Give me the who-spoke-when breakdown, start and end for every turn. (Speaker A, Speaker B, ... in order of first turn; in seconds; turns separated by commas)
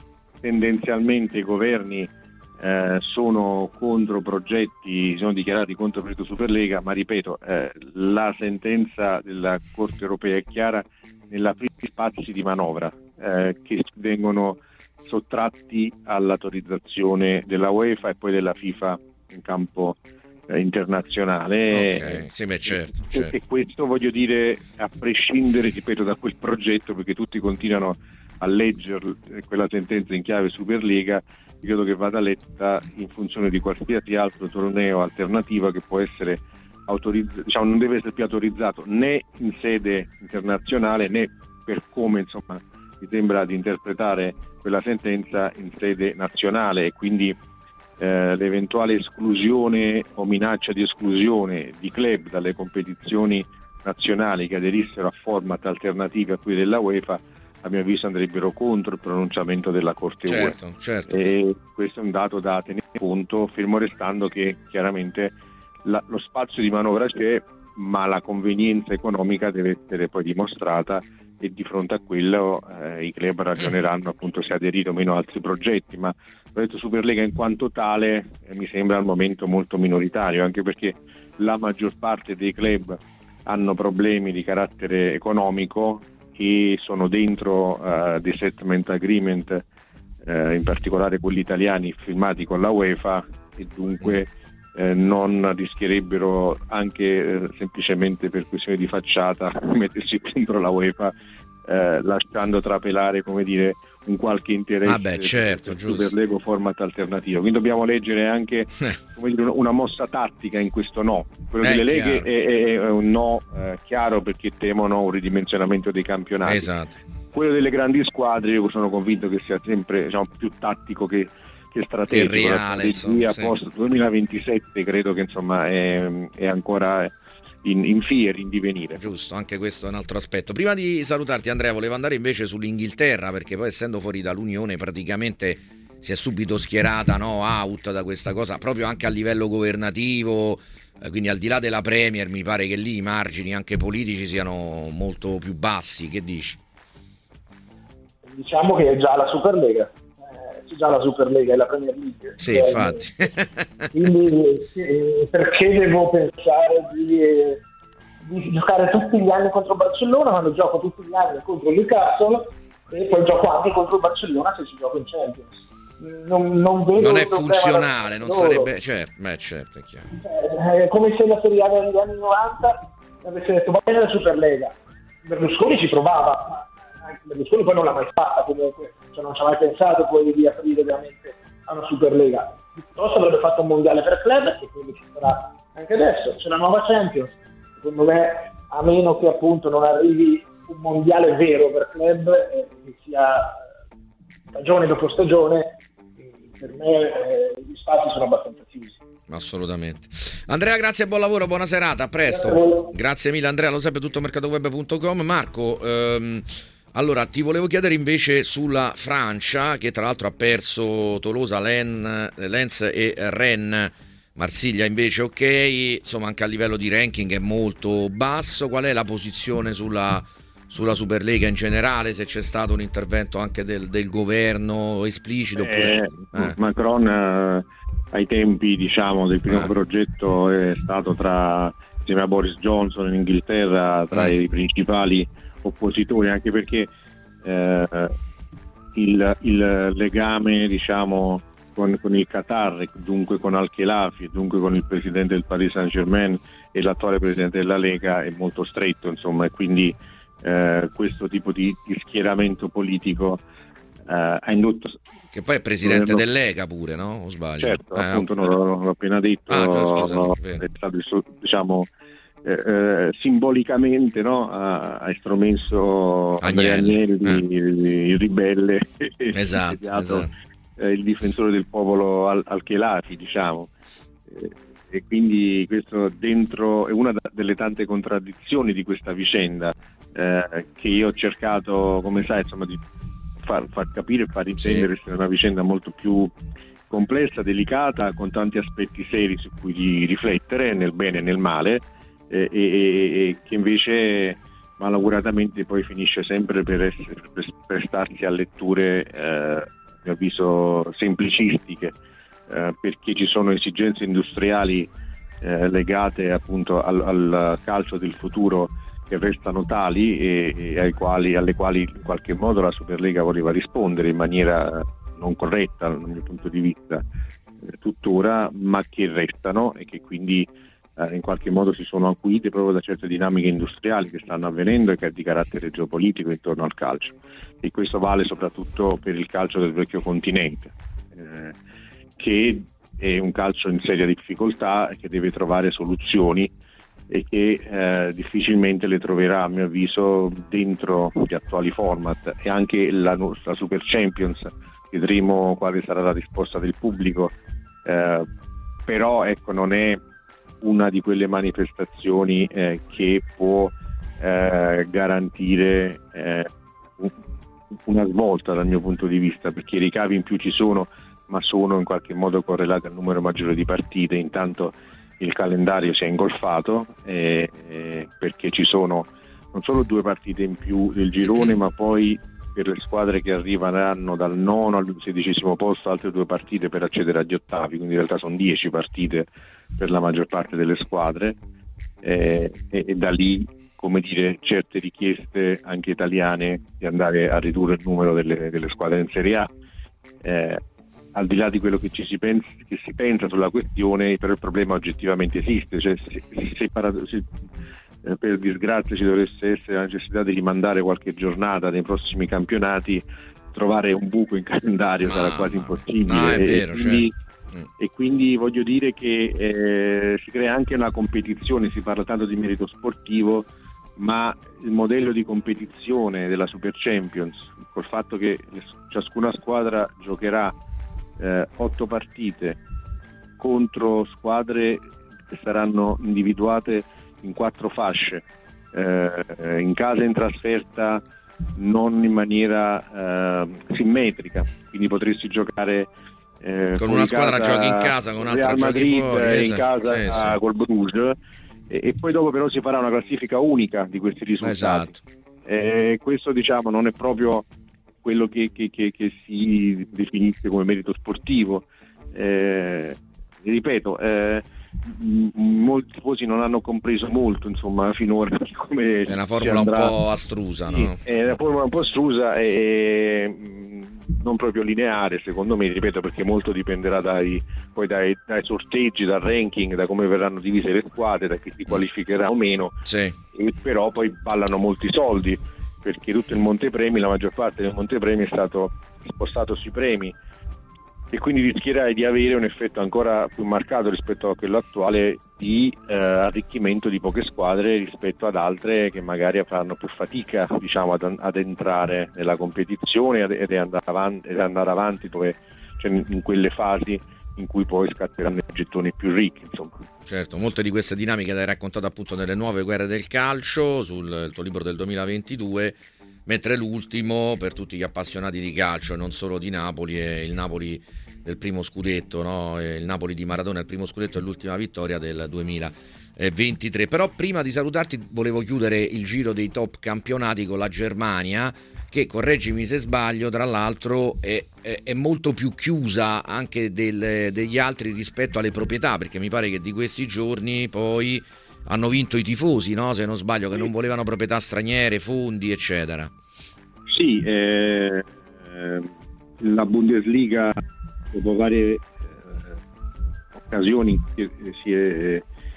Speaker A: 0.4-47.4, Speaker B: 21.7-23.3, Speaker A: 48.0-60.5, Speaker B: 60.3-61.1, Speaker A: 61.1-89.6, Speaker A: 90.2-101.1, Speaker A: 101.6-116.7, Speaker B: 104.8-106.1, Speaker B: 111.6-112.2, Speaker B: 116.4-116.9, Speaker A: 117.3-129.0, Speaker B: 122.1-123.5, Speaker B: 128.9-146.6, Speaker C: 148.3-153.1, Speaker B: 152.4-153.8, Speaker C: 153.9-157.6, Speaker C: 158.2-168.7, Speaker B: 166.9-170.1, Speaker C: 170.1-193.6, Speaker C: 194.5-195.8, Speaker C: 196.4-199.0, Speaker B: 199.3-226.6, Speaker C: 202.3-202.9, Speaker A: 225.6-236.9, Speaker A: 237.4-238.1, Speaker A: 238.9-253.4, Speaker A: 254.0-255.0, Speaker B: 255.3-258.3, Speaker A: 255.8-256.2, Speaker A: 257.6-261.9, Speaker B: 259.5-260.6, Speaker A: 262.4-273.7, Speaker B: 266.4-267.4, Speaker B: 269.3-270.3, Speaker A: 274.3-282.8, Speaker A: 283.4-286.3, Speaker B: 284.6-284.9, Speaker A: 286.9-301.9, Speaker A: 302.5-317.0, Speaker A: 317.7-331.6, Speaker A: 332.2-336.5, Speaker A: 337.1-348.3, Speaker A: 348.9-350.0, Speaker A: 350.6-357.1, Speaker A: 357.8-381.4, Speaker B: 371.2-371.5, Speaker A: 382.0-389.5, Speaker A: 390.2-390.6, Speaker A: 391.1-397.3, Speaker A: 398.0-407.1, Speaker B: 405.0-407.6, Speaker A: 407.8-420.5, Speaker A: 421.2-422.6, Speaker A: 423.4-431.0, Speaker A: 431.6-435.9, Speaker A: 436.4-441.1, Speaker B: 436.8-440.4, Speaker A: 441.7-444.9, Speaker B: 444.4-445.0, Speaker A: 445.4-447.5, Speaker A: 448.0-460.0, Speaker B: 459.1-461.0, Speaker A: 460.7-472.8, Speaker B: 472.9-473.1, Speaker A: 473.3-480.1, Speaker A: 481.1-499.8, Speaker B: 500.1-536.1, Speaker A: 536.9-540.5, Speaker A: 541.1-542.6, Speaker A: 543.4-545.2